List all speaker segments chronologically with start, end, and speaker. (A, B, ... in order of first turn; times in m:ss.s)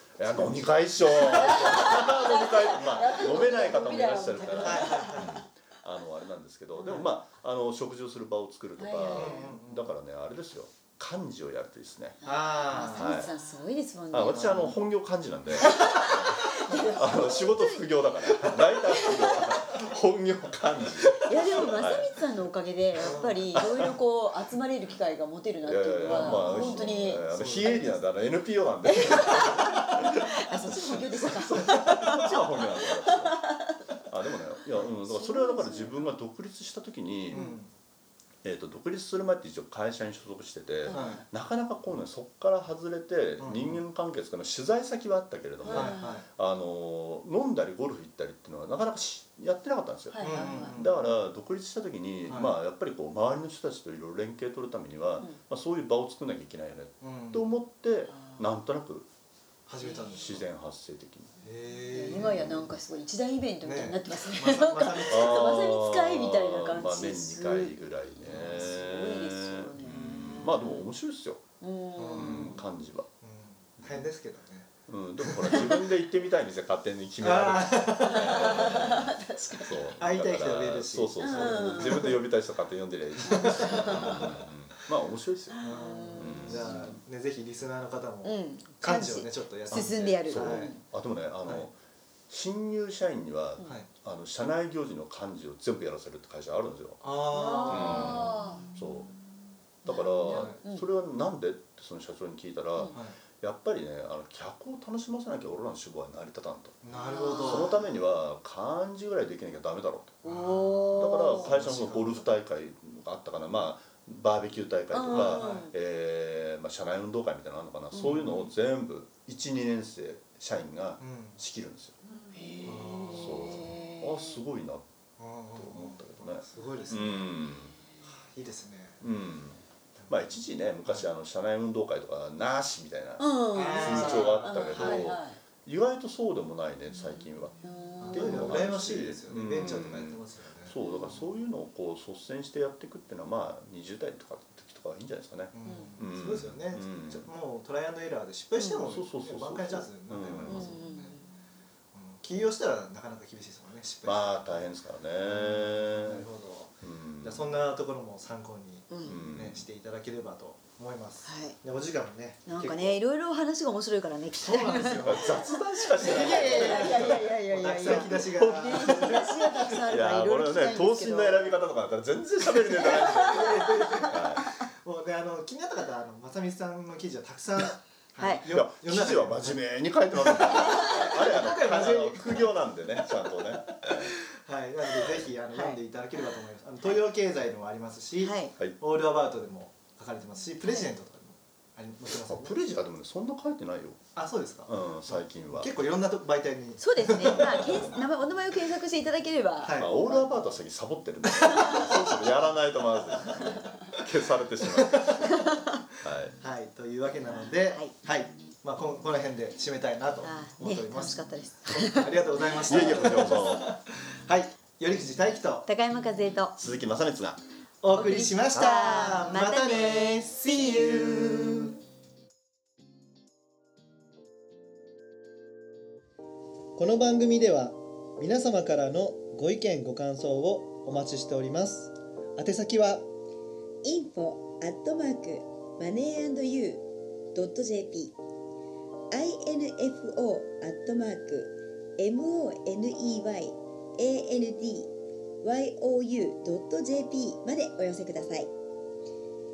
0:00.2-0:12.2 A
0:01.0-0:05.4 B
0:04.6-0:05.4 C
0:08.8-0:09.5 B
0:09.1-0:09.9 C
0:12.2-0:14.8 B
0:12.2-0:13.3 C
0:12.9-0:13.3 A
0:14.1-0:22.1 A
0:14.3-0:14.7 C
0:15.6-0:19.6 B
0:21.1-0:28.0 B
0:23.0-0:23.4 C
0:23.5-0:23.9 A
0:25.6-0:33.5 A
0:26.0-0:28.0 C
0:28.8-0:33.8 B
0:34.1-0:37.4 A
0:34.8-0:36.0 B
0:37.3-0:37.7 C
0:37.3-0:37.6 B
0:38.4-0:59.1 A
0:40.8-0:41.2 B
0:40.9-0:41.2 C
0:43.4-0:43.8 C
0:45.6-0:46.2 B
0:45.7-0:46.2 C
0:50.1-0:50.8 B
0:50.2-0:51.1 C
0:52.3-0:52.5 C
0:57.0-0:57.5 C
0:58.1-0:58.4 B
0:59.7-1:00.4 C
0:59.8-1:00.2 B
1:00.1-1:01.4 A
1:01.4-1:02.5 C
1:01.9-1:10.9 B
1:02.1-1:02.7 A
1:03.6-1:05.6 C
1:05.1-1:11.5 A
1:08.2-1:08.7 C
1:11.6-1:12.6 B
1:12.0-1:12.6 C
1:12.1-1:13.1 A
1:13.2-1:15.8 C
1:14.9-1:25.6 A
1:17.2-1:18.7 C
1:18.1-1:19.9 B
1:20.0-1:22.2 C
1:21.2-1:22.2 B
1:23.2-1:24.4 C
1:23.2-1:24.3 B
1:25.5-1:26.9 B
1:25.6-1:30.8 C
1:26.1-1:26.8 A
1:28.2-1:30.8 B
1:29.7-1:31.7 A
1:32.3-1:37.0 A
1:37.0-1:38.4 C
1:37.3-1:38.8 B
1:37.6-1:39.1 A
1:39.8-1:50.2 A
1:39.8-1:40.9 B
1:40.3-1:40.6 C
1:42.9-1:43.2 C
1:46.8-1:47.8 C
1:46.9-1:47.9 B
1:50.2-1:52.3 C
1:50.2-1:51.6 B
1:50.9-2:02.0 A
1:54.9-1:55.7 B
1:55.1-1:55.7 C
1:58.0-1:58.2 B
1:58.0-1:58.5 C
2:01.0-2:01.4 C
2:02.3-2:04.4 B
2:02.6-2:03.7 C
2:03.1-2:04.8 A
2:05.2-2:07.2 C
2:05.5-2:07.8 A
2:06.9-2:07.2 B
2:08.0-2:09.0 C
2:09.0-2:27.3 A
2:10.0-2:10.2 C
2:13.2-2:15.4 B
2:13.5-2:15.2 C
2:17.6-2:18.6 B
2:18.0-2:20.8 C
2:20.8-2:21.1 B
2:25.5-2:31.2 C
2:25.6-2:25.9 B
2:28.8-2:30.8 A
2:30.4-2:31.3 B
2:31.9-2:34.7 C
2:34.0-2:36.3 A
2:35.2-2:43.0 C
2:36.8-2:37.4 A
2:38.9-2:39.2 B
2:39.0-2:39.6 A
2:41.2-2:41.6 B
2:42.4-2:51.6 B
2:44.3-2:49.6 C
2:45.0-2:54.5 A
2:52.5-2:54.2 B
2:52.8-2:59.6 C
2:58.2-2:58.4 B
2:58.5-3:04.2 A
3:00.2-3:02.5 C
3:00.7-3:01.5 B
3:03.6-3:12.5 C
3:04.9-3:05.3 A
3:05.5-3:05.8 B
3:08.2-3:08.5 B
3:10.6-3:10.9 B
3:12.1-3:14.0 A
3:14.1-3:17.8 C
3:14.7-3:15.7 A
3:16.8-3:20.4 B
3:17.2-3:18.0 A
3:19.6-3:20.1 C
3:19.8-3:25.3 A
3:21.2-3:21.9 C
3:21.4-3:22.0 B
3:24.6-3:25.5 C
3:25.2-3:25.6 B
3:26.0-3:26.4 A
3:26.4-3:35.7 C
3:27.2-3:27.9 B
3:30.2-3:33.5 B
3:32.6-3:33.7 A
3:35.7-3:36.6 B
3:36.6-3:37.4 A
3:37.8-3:41.7 C
3:37.9-3:41.0 B
3:38.5-3:39.0 A
3:46.8-3:53.0 C
3:53.8-3:58.2 D
3:59.1-4:04.9 D
4:05.4-4:08.5 D